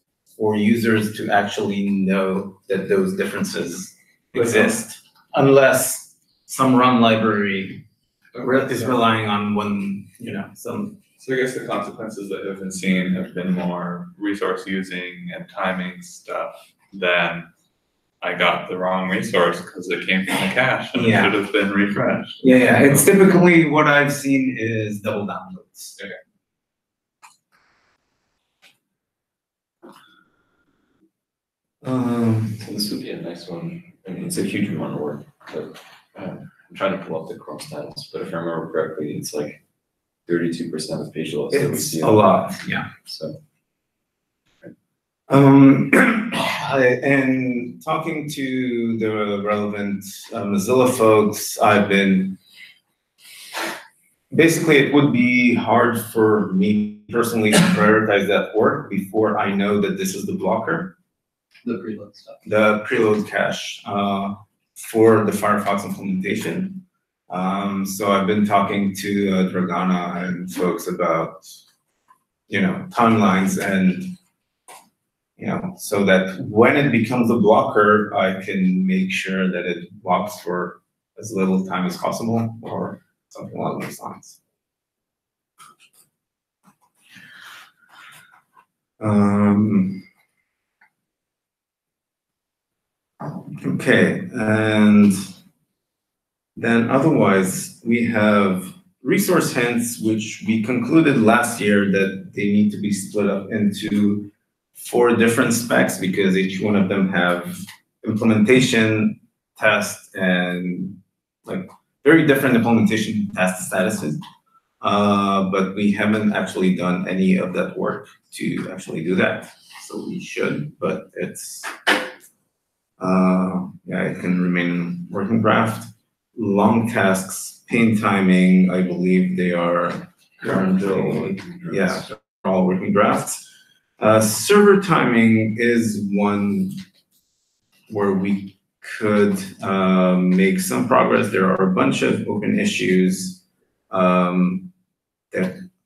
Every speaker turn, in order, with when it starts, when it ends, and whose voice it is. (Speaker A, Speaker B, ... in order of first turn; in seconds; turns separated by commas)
Speaker A: 0.4-7.8, Speaker B: 4.3-4.7, Speaker B: 8.3-8.9, Speaker A: 8.4-11.0, Speaker B: 11.2-17.5, Speaker B: 18.2-23.1, Speaker A: 20.9-21.4, Speaker A: 21.9-26.0, Speaker A: 31.8-32.9, Speaker C: 32.6-39.6, Speaker C: 40.3-43.4, Speaker A: 41.5-42.9, Speaker A: 45.3-52.4, Speaker A: 54.3-60.9, Speaker C: 61.6-62.4, Speaker A: 62.4-71.5, Speaker A: 72.5-74.1, Speaker A: 75.4-84.4, Speaker A: 89.0-90.0, Speaker A: 93.4-95.3, Speaker A: 96.5-114.2, Speaker A: 114.8-121.8, Speaker A: 123.0-133.5, Speaker C: 130.4-132.0, Speaker A: 134.0-136.8, Speaker A: 137.9-144.7, Speaker A: 145.3-145.7